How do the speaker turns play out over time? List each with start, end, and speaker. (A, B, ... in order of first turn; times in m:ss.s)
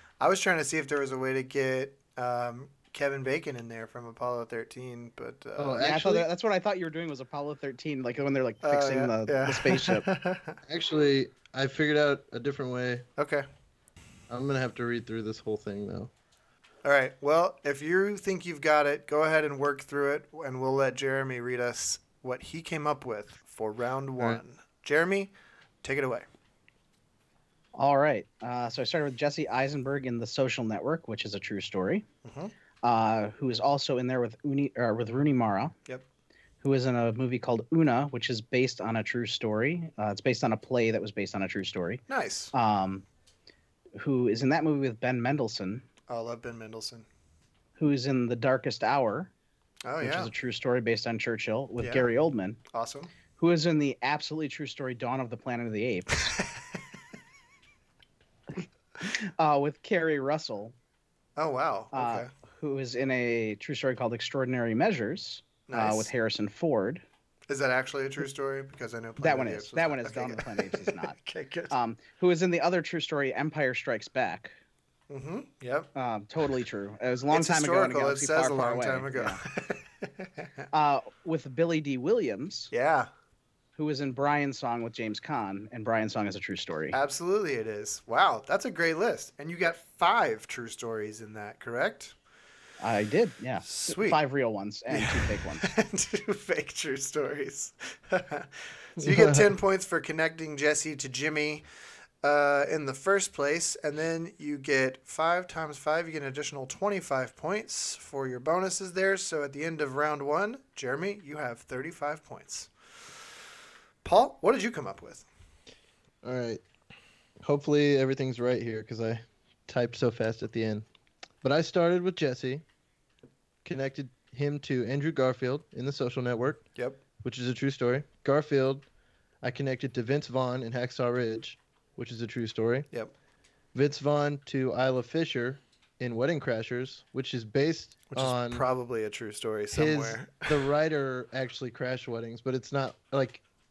0:00.2-0:05.8 A
0:05.6-0:06.3 B
0:05.8-0:10.0 C
0:08.6-0:10.6 A
0:10.6-0:13.1 B
0:13.2-0:13.4 A
0:14.3-0:16.1 B
0:16.8-0:25.3 A
0:25.8-0:26.3 A
0:27.8-0:32.0 C
0:32.3-0:32.5 A
0:32.8-0:35.7 C
0:36.6-0:42.0 C
0:42.1-0:42.5 A
0:42.5-0:43.1 C
0:44.0-0:45.9 C
0:46.1-0:47.1 A
0:47.8-0:49.3 C
0:49.8-0:50.3 A
0:50.0-0:52.6 C
0:51.8-0:52.1 A
0:52.7-0:53.1 A
0:53.4-0:56.3 C
0:58.6-1:00.7 C
1:01.4-1:02.3 A
1:01.9-1:07.0 C
1:05.7-1:06.1 A
1:07.5-1:11.7 A
1:09.2-1:11.2 C
1:11.7-1:14.5 C
1:15.1-1:15.9 A
1:16.0-1:19.4 C
1:17.3-1:20.6 A
1:20.7-1:22.7 C
1:22.7-1:23.1 A
1:23.8-1:27.0 C
1:26.9-1:32.2 A
1:32.8-1:35.7 C
1:33.6-1:34.2 A
1:34.9-1:41.6 A
1:39.0-1:39.5 B
1:42.2-1:52.7 A
1:54.0-1:55.3 A
1:56.2-1:56.6 B
1:57.4-2:00.9 B
2:01.4-2:02.6 B
2:03.6-2:06.7 B
2:06.8-2:07.0 A
2:07.2-2:08.9 B
2:09.4-2:12.9 B
2:13.8-2:18.6 B
2:18.1-2:20.7 A
2:19.7-2:23.4 B